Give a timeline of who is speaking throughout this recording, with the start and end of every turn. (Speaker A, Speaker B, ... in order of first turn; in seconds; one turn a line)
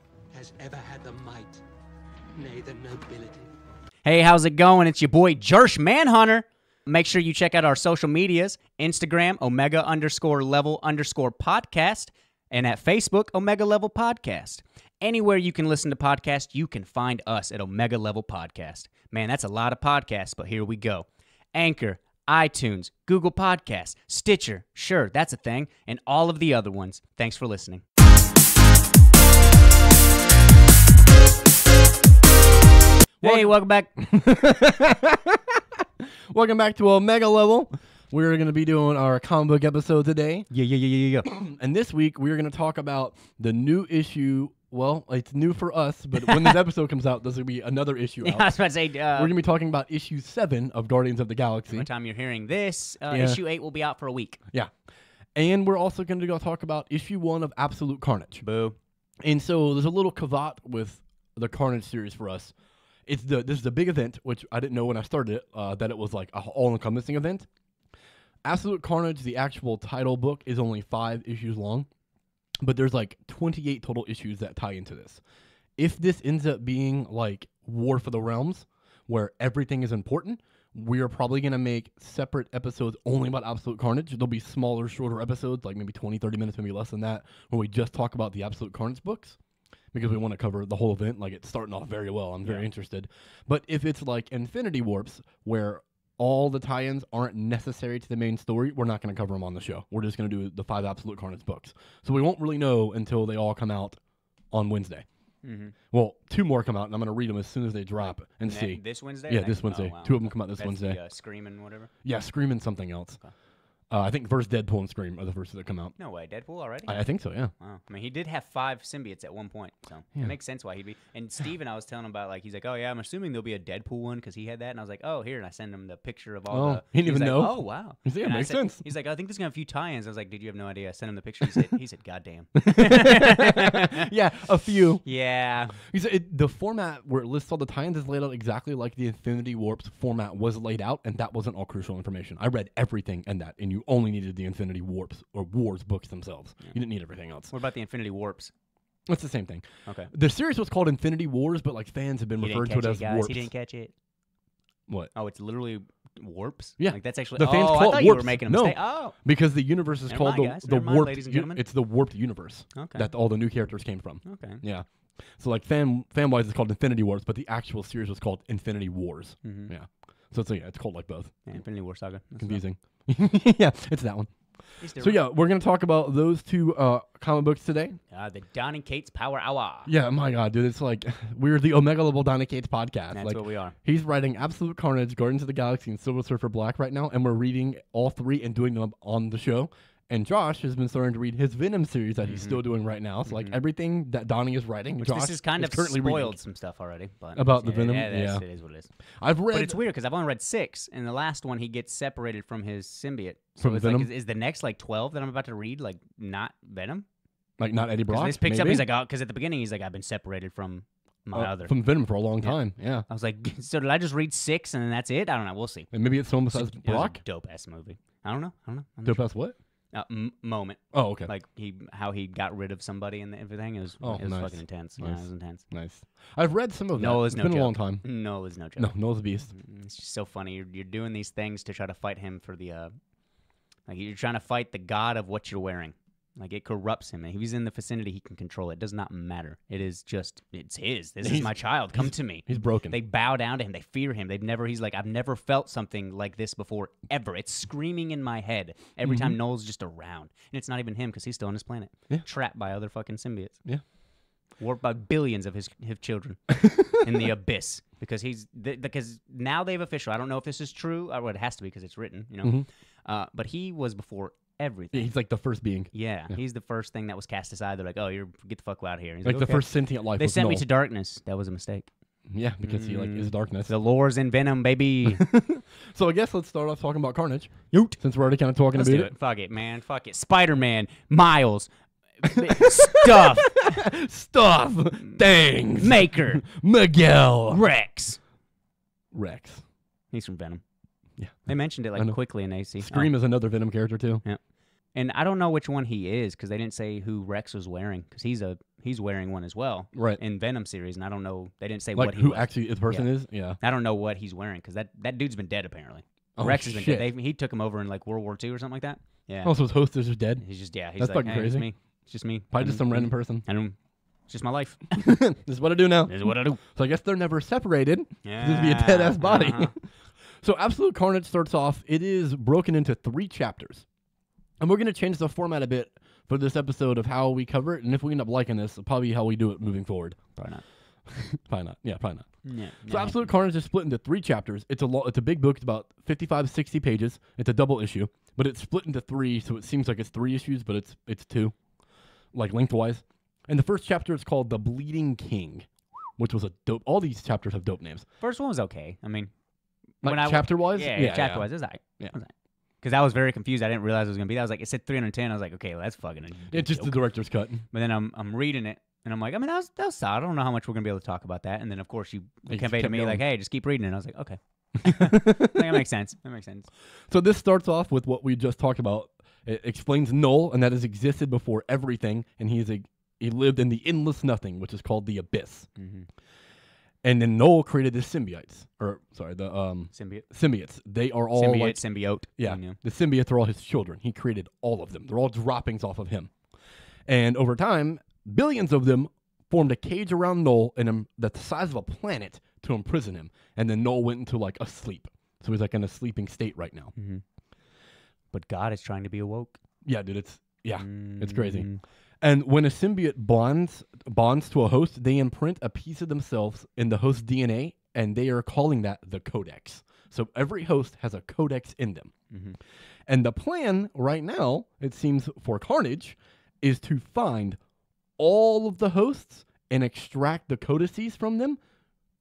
Speaker A: 0.3-1.6
Speaker A: 2.4-3.4
Speaker B: 4.0-27.8
Speaker B: 33.2-33.9
Speaker C: 33.2-40.5
Speaker B: 40.5-41.3
Speaker C: 41.2-48.5
Speaker B: 46.2-46.5
Speaker B: 48.2-49.3
Speaker C: 49.1-51.9
Speaker B: 51.7-54.4
Speaker C: 53.1-53.4
Speaker C: 55.3-58.4
Speaker B: 58.4-58.8
Speaker C: 59.2-62.5
Speaker C: 63.0-67.5
Speaker C: 68.4-71.9
Speaker C: 72.6-75.2
Speaker C: 75.8-89.4
Speaker C: 89.9-104.0
Speaker C: 104.5-105.0
Speaker B: 105.4-105.7
Speaker C: 105.9-111.0
Speaker B: 108.4-111.9
Speaker C: 112.0-113.2
Speaker C: 113.9-116.0
Speaker B: 116.0-117.0
Speaker C: 116.9-117.5
Speaker B: 117.6-134.1
Speaker C: 126.5-128.8
Speaker C: 132.6-135.0
Speaker B: 135.0-135.8
Speaker C: 135.8-147.5
Speaker B: 147.5-148.5
Speaker C: 149.1-153.5
Speaker B: 149.8-150.1
Speaker B: 152.4-153.9
Speaker B: 155.1-159.2
Speaker C: 156.8-164.9
Speaker B: 160.1-161.6
Speaker B: 162.7-163.1
Speaker B: 164.2-164.6
Speaker C: 165.4-171.4
Speaker B: 169.4-169.7
Speaker B: 171.5-172.6
Speaker C: 172.4-174.3
Speaker B: 174.8-175.2
Speaker C: 175.0-178.0
Speaker B: 178.1-179.9
Speaker C: 179.8-196.4
Speaker B: 183.1-183.7
Speaker B: 192.3-192.6
Speaker B: 193.2-193.6
Speaker B: 195.0-198.9
Speaker C: 197.3-198.4
Speaker C: 199.2-199.8
Speaker B: 199.5-207.1
Speaker C: 203.6-204.1
Speaker C: 207.6-208.8
Speaker B: 208.1-211.7
Speaker C: 211.3-213.0
Speaker B: 213.1-215.9
Speaker C: 215.9-217.2
Speaker B: 216.5-219.2
Speaker C: 219.0-219.6
Speaker B: 219.9-225.6
Speaker C: 220.9-221.3
Speaker C: 224.0-228.0
Speaker B: 227.0-228.9
Speaker C: 228.8-229.5
Speaker B: 229.5-232.9
Speaker B: 233.9-253.6
Speaker C: 241.2-243.0
Speaker C: 249.1-249.3
Speaker B: 254.6-265.1
Speaker C: 256.6-257.1
Speaker C: 264.9-266.4
Speaker B: 265.9-271.9
Speaker C: 269.2-270.6
Speaker C: 272.3-273.7
Speaker B: 272.6-275.2
Speaker C: 275.1-279.1
Speaker B: 277.7-278.0
Speaker B: 278.7-281.7
Speaker B: 282.2-283.8
Speaker C: 282.3-287.6
Speaker B: 285.7-286.4
Speaker B: 287.5-288.2
Speaker C: 289.1-289.6
Speaker B: 290.1-290.6
Speaker C: 291.2-292.2
Speaker B: 291.4-293.1
Speaker C: 292.8-294.2
Speaker B: 294.9-309.5
Speaker C: 299.9-300.2
Speaker C: 301.9-303.6
Speaker C: 306.4-307.1
Speaker C: 309.4-310.4
Speaker B: 310.4-313.8
Speaker C: 311.0-311.7
Speaker C: 312.5-313.4
Speaker B: 314.3-315.1
Speaker C: 315.0-319.8
Speaker B: 316.1-316.6
Speaker B: 318.2-319.7
Speaker C: 320.4-323.9
Speaker C: 324.6-330.4
Speaker B: 330.4-330.6
Speaker C: 331.1-341.5
Speaker B: 332.4-333.3
Speaker C: 342.3-348.1
Speaker B: 348.2-349.3
Speaker B: 350.0-357.0
Speaker C: 350.0-351.5
Speaker C: 356.5-357.6
Speaker B: 357.7-366.7
Speaker C: 362.5-363.2
Speaker C: 364.8-365.8
Speaker C: 367.1-375.7
Speaker B: 375.8-376.1
Speaker C: 377.0-381.8
Speaker B: 379.9-380.2
Speaker B: 381.3-382.8
Speaker C: 382.4-386.3
Speaker C: 387.1-396.9
Speaker B: 396.9-397.2
Speaker B: 398.3-399.6
Speaker C: 399.8-401.7
Speaker B: 400.8-401.8
Speaker C: 402.2-412.1
Speaker B: 412.3-412.6
Speaker C: 413.1-417.6
Speaker C: 418.2-421.6